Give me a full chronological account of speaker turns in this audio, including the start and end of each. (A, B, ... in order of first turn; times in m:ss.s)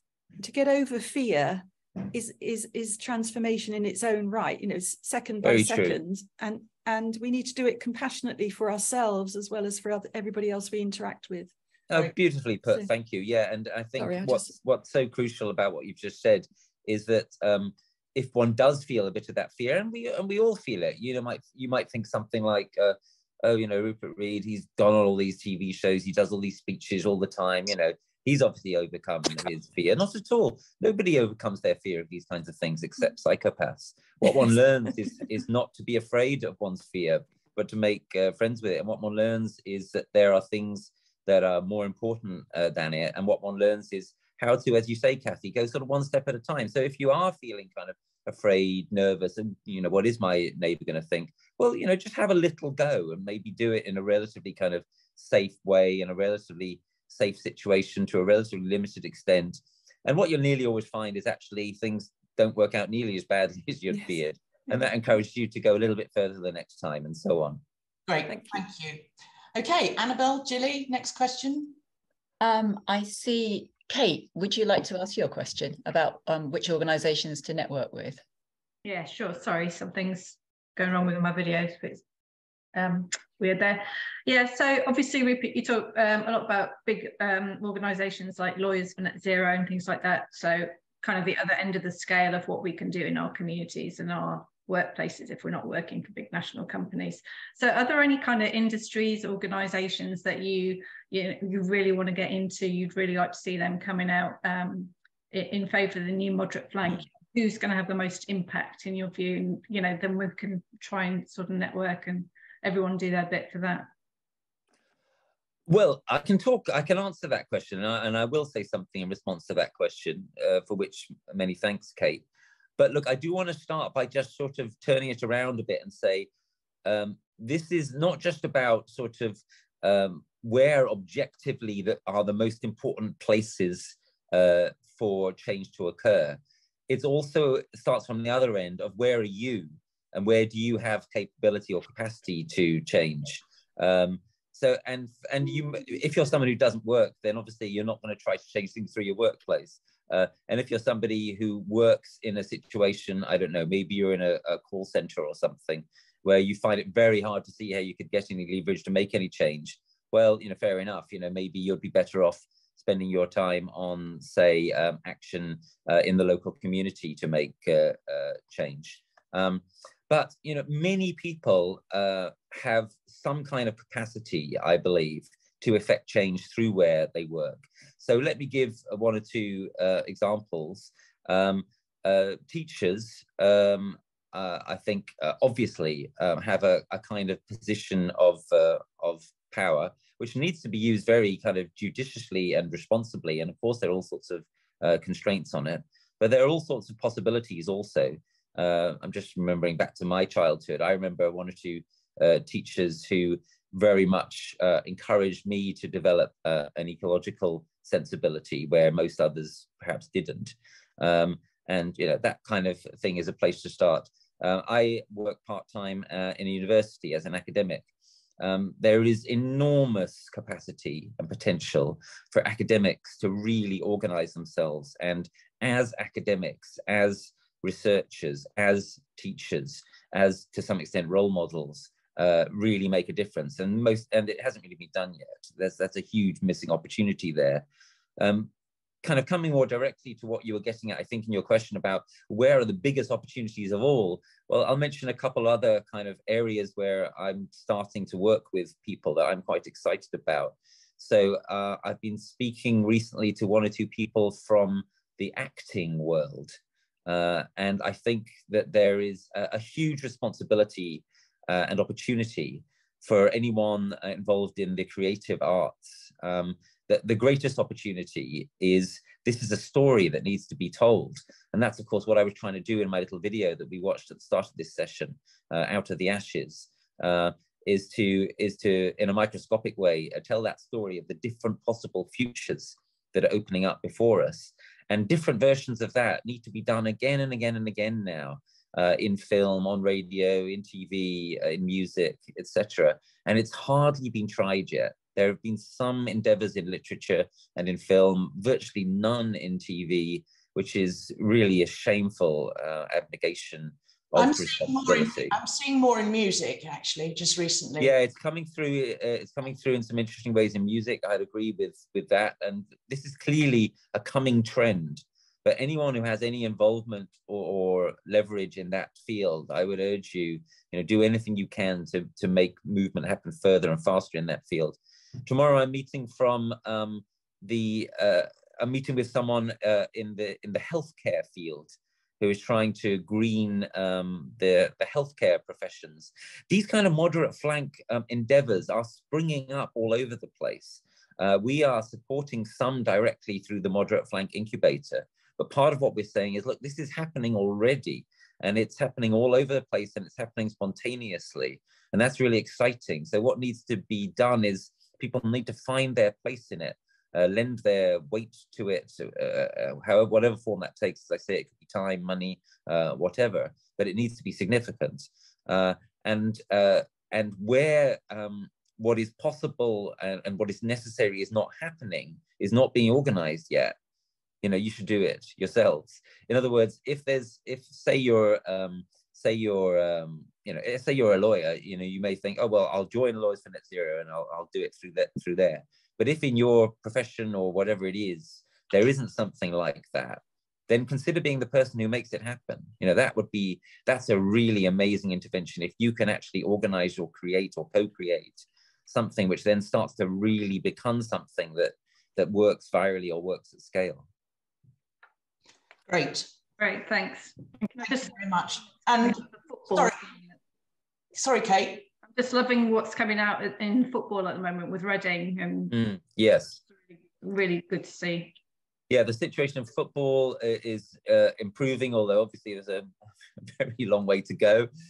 0:00.4-0:12.0 A
0:05.4-0:06.0 B
0:11.9-1:07.6 B
0:14.0-0:14.5 A
1:08.1-1:11.8 C
1:12.4-1:18.2 D
1:18.8-1:22.0 E
1:22.7-1:53.9 E
1:55.7-2:02.2 B
2:02.8-2:06.3 B
2:06.8-3:37.9 B
3:38.4-3:57.6 B
3:58.2-3:58.5 B
3:59.0-5:05.4 B
5:04.2-5:07.9 C
5:07.8-6:13.8 B
6:14.4-6:44.1 B
6:45.9-6:46.3 C
6:46.6-6:48.1 E
6:47.8-6:50.0 C
6:49.0-6:50.2 E
6:51.2-6:51.9 C
6:52.1-6:55.7 E
6:55.7-6:56.6 B
6:57.2-6:58.4 E
6:58.9-7:04.7 B